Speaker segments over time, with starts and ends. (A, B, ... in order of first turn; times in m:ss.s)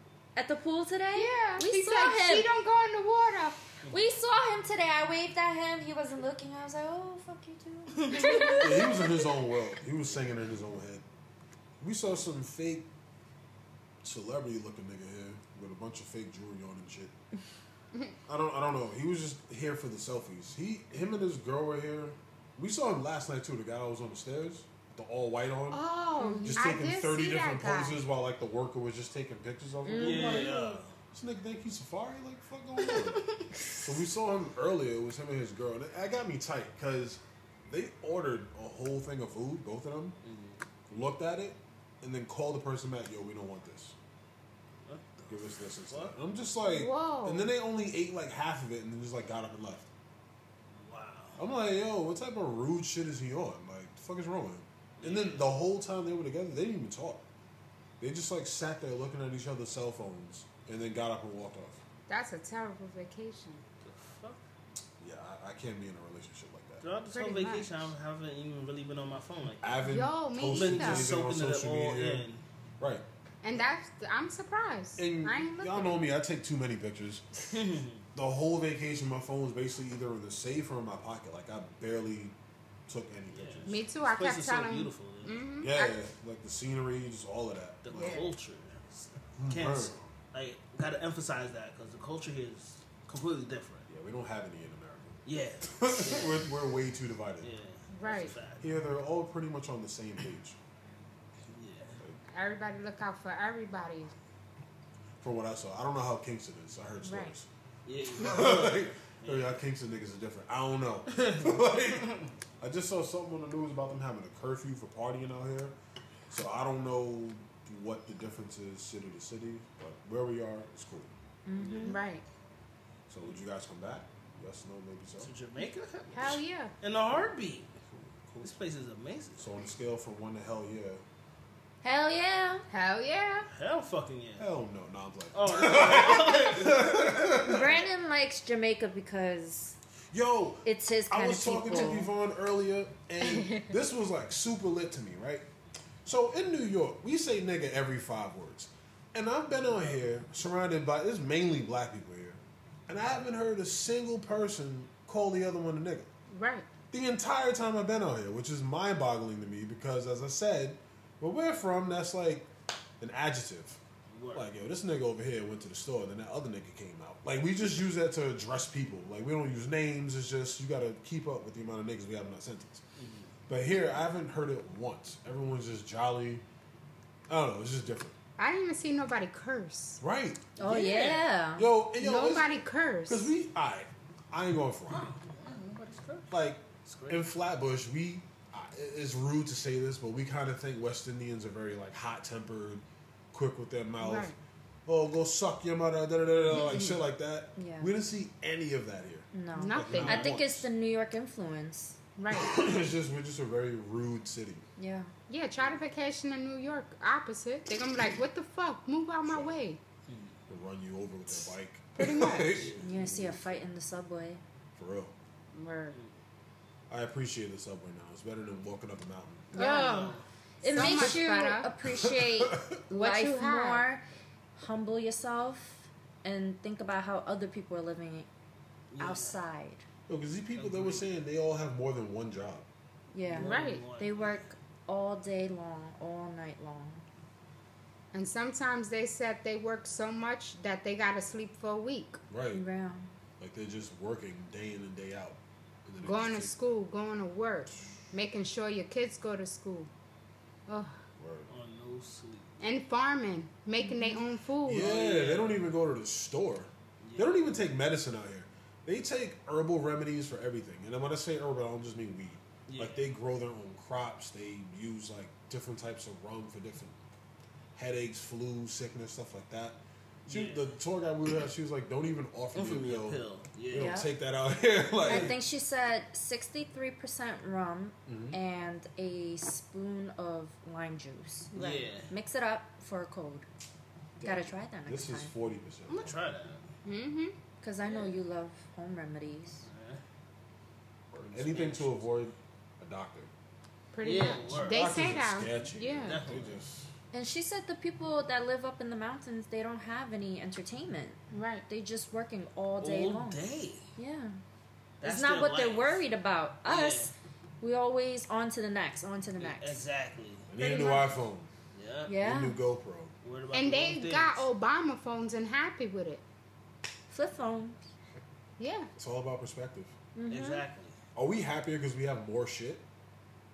0:00.4-0:02.5 A
0:01.1-0:03.7 B
0:03.9-0:09.1 A
0:07.9-0:08.7 C
0:08.6-0:11.0 D
0:11.8-0:12.9 D
0:14.0-0:17.1 D
0:18.3-0:25.8 D
0:25.7-0:28.0 B
0:26.2-0:26.7 A
0:26.4-0:40.2 D
0:29.8-0:30.6 A
0:30.0-0:30.9 C
0:32.9-0:33.6 C
0:40.2-0:40.6 C
0:40.9-0:44.0 D
0:44.8-0:46.2 C
0:45.3-0:49.9 D
0:46.6-0:47.5 B
0:50.7-0:51.4 C
0:51.4-0:57.2 D
0:55.0-0:55.5 C
0:58.0-1:01.8 D
1:02.1-1:03.6 B
1:03.8-1:04.4 C
1:05.0-1:06.8 D
1:06.8-1:09.9 C
1:07.1-1:07.8 B
1:09.6-1:12.3 D
1:09.8-1:11.1 B
1:10.5-1:12.4 C
1:12.8-1:13.0 D
1:13.4-1:16.0 B
1:15.0-1:17.2 D
1:17.5-1:18.0 C
1:18.1-1:22.3 D
1:22.9-1:23.8 D
1:23.3-1:25.4 C
1:23.7-1:26.0 B
1:25.6-1:28.2 D
1:27.8-1:33.9 C
1:27.9-1:28.3 B
1:29.4-1:30.1 D
1:33.9-1:37.5 D
1:35.2-1:36.4 C
1:37.4-1:38.6 C
1:37.9-1:38.4 B
1:38.6-1:40.6 D
1:41.5-1:42.0 C
1:42.3-1:44.1 B
1:45.2-1:47.5 D
1:47.0-1:47.3 B
1:47.8-1:49.6 C
1:48.1-1:55.7 D
1:51.1-1:52.3 C
1:56.3-2:01.1 D
2:01.4-2:02.0 A
2:01.6-2:02.0 C
2:01.8-2:02.2 B
2:03.1-2:05.3 D
2:05.2-2:07.8 C
2:06.1-2:06.7 B
2:07.9-2:08.5 D
2:08.4-2:09.5 C
2:09.4-2:11.0 D
2:11.8-2:12.6 A
2:12.7-2:13.5 B
2:13.5-2:14.5 C
2:14.4-2:17.8 D
2:15.3-2:17.1 C
2:17.4-2:19.8 A
2:20.1-2:25.4 D
2:20.6-2:22.1 A
2:23.2-2:23.7 B
2:26.0-2:36.1 D
2:36.3-2:36.7 B
2:36.9-2:42.5 D
2:43.0-2:43.8 D
2:44.1-2:44.4 C
2:44.3-2:52.8 D
2:53.0-2:53.3 C
2:53.5-2:56.4 D
2:57.3-2:58.2 D
2:58.4-3:00.0 B
3:00.0-3:00.5 D
3:00.6-3:01.3 C
3:00.6-3:01.7 A
3:01.5-3:05.2 D
3:02.0-3:03.3 B
3:05.0-3:06.3 C
3:06.3-3:20.7 D
3:06.8-3:07.2 C
3:14.0-3:14.4 B
3:16.5-3:16.9 B
3:17.6-3:17.9 A
3:19.3-3:22.0 A
3:19.6-3:20.3 B
3:19.9-3:20.3 C
3:22.2-3:22.6 B
3:22.3-3:24.6 D
3:24.8-3:25.1 A
3:25.3-3:29.8 B
3:29.2-3:29.6 D
3:30.1-3:30.4 C
3:30.5-3:33.6 D
3:32.0-3:32.6 B
3:32.5-3:32.8 C
3:32.8-3:34.4 A
3:34.8-3:35.1 D
3:35.5-3:36.0 B
3:36.9-3:39.5 D
3:39.5-3:40.1 A
3:39.5-3:41.7 B
3:39.6-3:40.2 C
3:40.6-3:44.0 A
3:40.8-3:41.2 D
3:41.8-3:42.8 D
3:42.9-3:43.9 B
3:44.6-3:48.3 A
3:48.9-3:49.3 C
3:49.0-3:49.8 A
3:50.1-3:52.7 D
3:50.6-3:51.0 C
3:53.1-3:57.0 A
3:53.3-3:54.4 C
3:53.4-3:53.8 B
3:58.1-4:02.2 B
4:02.3-4:02.6 D
4:02.5-4:03.1 A
4:03.4-4:06.5 D
4:06.0-4:09.9 B
4:10.7-4:11.0 B
4:11.2-4:11.5 D
4:11.5-4:12.6 C
4:12.6-4:14.9 B
4:13.8-4:14.2 A
4:14.6-4:26.9 D
4:14.8-4:15.7 C
4:17.0-4:17.6 C
4:22.7-4:23.0 C
4:27.7-4:35.4 D
4:30.2-4:30.7 C
4:32.5-4:34.0 C
4:33.7-4:34.1 A
4:35.0-4:43.4 A
4:35.1-4:35.3 C
4:38.1-4:38.4 D
4:41.5-4:42.1 C
4:44.2-4:46.2 D
4:44.2-4:45.3 A
4:45.9-4:46.7 C
4:46.8-4:47.4 B
4:47.6-4:49.6 A
4:47.8-4:48.2 C
4:49.6-4:50.0 C
4:51.1-4:53.3 D
4:51.3-4:52.2 C
4:53.9-4:56.2 B
4:54.0-4:55.4 C
4:54.5-4:56.9 D
4:56.0-4:56.6 C
4:57.1-5:03.4 A
5:01.3-5:01.6 B
5:02.8-5:03.9 C
5:04.0-5:04.4 A
5:05.0-5:06.0 C
5:05.0-5:09.8 A
5:06.6-5:07.1 C
5:09.4-5:10.5 C
5:10.5-5:11.5 D
5:10.6-5:11.1 B
5:11.7-5:12.1 C
5:12.1-5:12.6 A
5:12.2-5:13.1 D
5:13.2-5:14.4 C
5:13.5-5:16.2 B
5:17.1-5:17.8 A
5:18.6-5:18.9 B
5:19.0-5:19.9 D
5:20.1-5:20.6 A
5:20.3-5:21.0 C
5:21.1-5:22.8 D